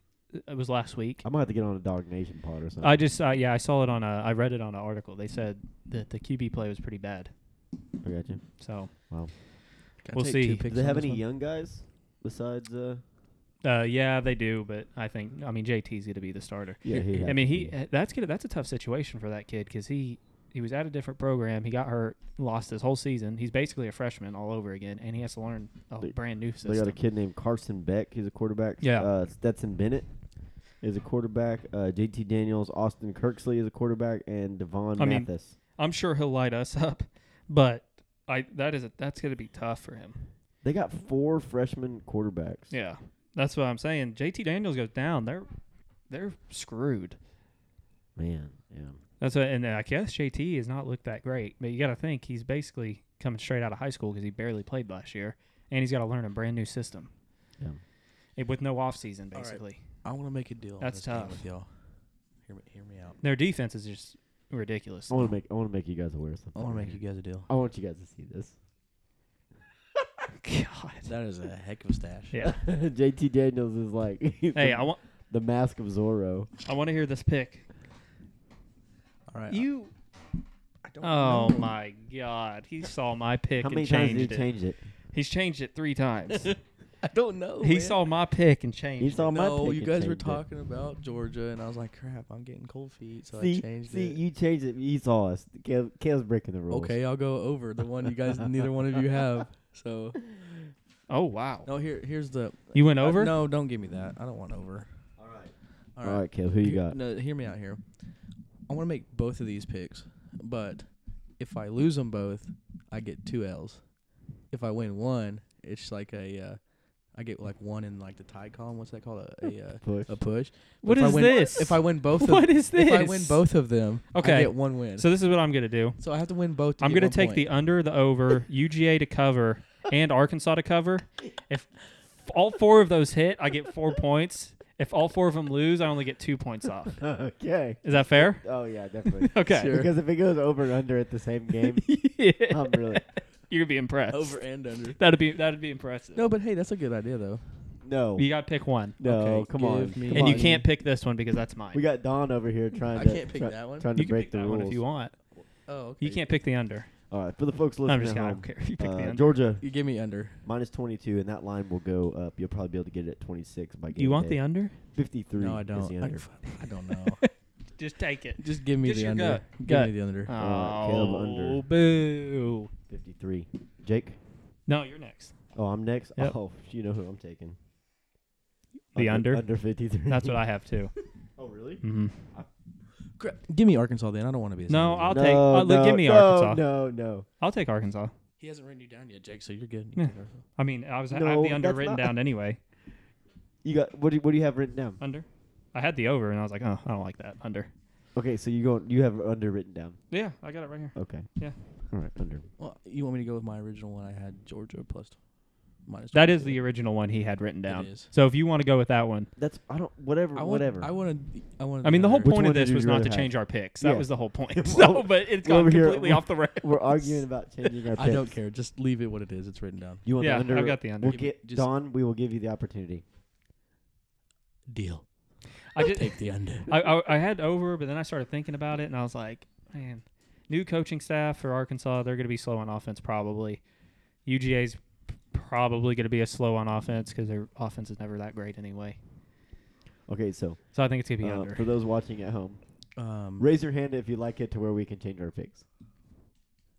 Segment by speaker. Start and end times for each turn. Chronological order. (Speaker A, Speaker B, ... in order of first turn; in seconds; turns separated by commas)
Speaker A: 0.3-1.2, Speaker B: 1.2-3.0, Speaker A: 2.8-7.3, Speaker B: 8.0-9.3, Speaker A: 8.6-8.9, Speaker C: 10.0-11.2, Speaker A: 10.1-10.7, Speaker B: 10.7-13.0, Speaker A: 13.6-27.0, Speaker B: 16.8-17.8, Speaker C: 17.1-17.3, Speaker B: 26.0-30.1, Speaker A: 28.8-29.1, Speaker B: 30.6-35.6, Speaker A: 35.0-40.3, Speaker B: 40.6-42.7, Speaker A: 42.7-45.6, Speaker A: 46.1-47.2, Speaker B: 48.2-49.0, Speaker A: 49.2-57.1, Speaker A: 58.4-60.0, Speaker C: 59.3-63.2, Speaker A: 60.8-61.5, Speaker A: 63.2-65.2, Speaker B: 65.1-68.6, Speaker C: 66.6-67.5, Speaker A: 70.4-71.1, Speaker C: 71.0-72.4, Speaker A: 72.3-72.6, Speaker B: 72.4-76.5, Speaker A: 74.5-75.0, Speaker A: 76.7-77.7, Speaker C: 79.3-79.7, Speaker A: 79.5-79.9, Speaker C: 80.8-81.8, Speaker A: 81.0-84.5, Speaker B: 83.6-84.9, Speaker A: 85.1-86.5, Speaker C: 86.3-88.0, Speaker A: 87.6-89.3, Speaker B: 89.0-90.4, Speaker C: 89.3-94.2, Speaker B: 93.4-97.0, Speaker C: 96.7-100.3, Speaker A: 101.1-101.7, Speaker C: 101.7-104.9, Speaker A: 102.7-103.3, Speaker B: 105.2-107.0, Speaker C: 106.0-108.0, Speaker C: 108.7-113.8, Speaker C: 114.5-125.2, Speaker B: 119.8-120.2, Speaker A: 120.8-123.5, Speaker A: 124.1-126.0, Speaker C: 126.0-127.5, Speaker A: 126.8-137.1, Speaker B: 137.0-143.1, Speaker A: 137.8-138.5, Speaker A: 139.1-139.7, Speaker C: 139.5-139.9, Speaker A: 141.8-146.3, Speaker C: 144.1-145.0, Speaker C: 146.2-147.4, Speaker B: 147.8-148.4, Speaker A: 148.2-149.0, Speaker B: 149.0-150.6, Speaker C: 149.0-150.7, Speaker A: 150.1-151.9, Speaker B: 151.7-154.8, Speaker C: 152.9-153.9, Speaker A: 153.9-155.2, Speaker C: 155.7-156.3, Speaker A: 156.0-156.9, Speaker B: 157.1-159.7, Speaker A: 157.8-159.4, Speaker C: 159.6-160.5, Speaker B: 160.4-166.3, Speaker A: 164.0-164.8, Speaker C: 165.3-167.3, Speaker A: 166.9-172.7, Speaker C: 168.4-170.3, Speaker B: 170.3-171.6, Speaker B: 172.9-174.2, Speaker A: 174.7-175.4, Speaker B: 175.5-177.6, Speaker A: 178.9-179.5, Speaker B: 178.9-180.4, Speaker A: 180.1-180.9, Speaker B: 181.4-182.5, Speaker A: 181.8-182.3, Speaker C: 183.2-185.3, Speaker A: 184.7-186.7, Speaker B: 185.1-187.3, Speaker A: 187.4-188.1, Speaker C: 188.4-190.4, Speaker A: 190.0-192.6, Speaker B: 191.1-192.1, Speaker B: 193.6-195.0, Speaker A: 195.0-197.7, Speaker B: 198.1-200.0, Speaker A: 200.1-201.6, Speaker B: 200.9-202.4, Speaker C: 202.6-206.7, Speaker A: 206.1-209.3, Speaker C: 207.7-208.1, Speaker B: 209.4-210.9, Speaker C: 210.3-212.4, Speaker A: 211.8-217.7, Speaker B: 212.2-218.4, Speaker C: 217.9-220.1, Speaker B: 220.0-223.0, Speaker A: 220.2-221.2, Speaker C: 221.1-221.7, Speaker C: 224.7-225.1, Speaker A: 225.7-233.6, Speaker C: 225.8-226.8, Speaker A: 234.2-239.0, Speaker B: 240.1-242.6, Speaker A: 240.7-241.7, Speaker C: 243.0-243.5, Speaker B: 243.4-245.7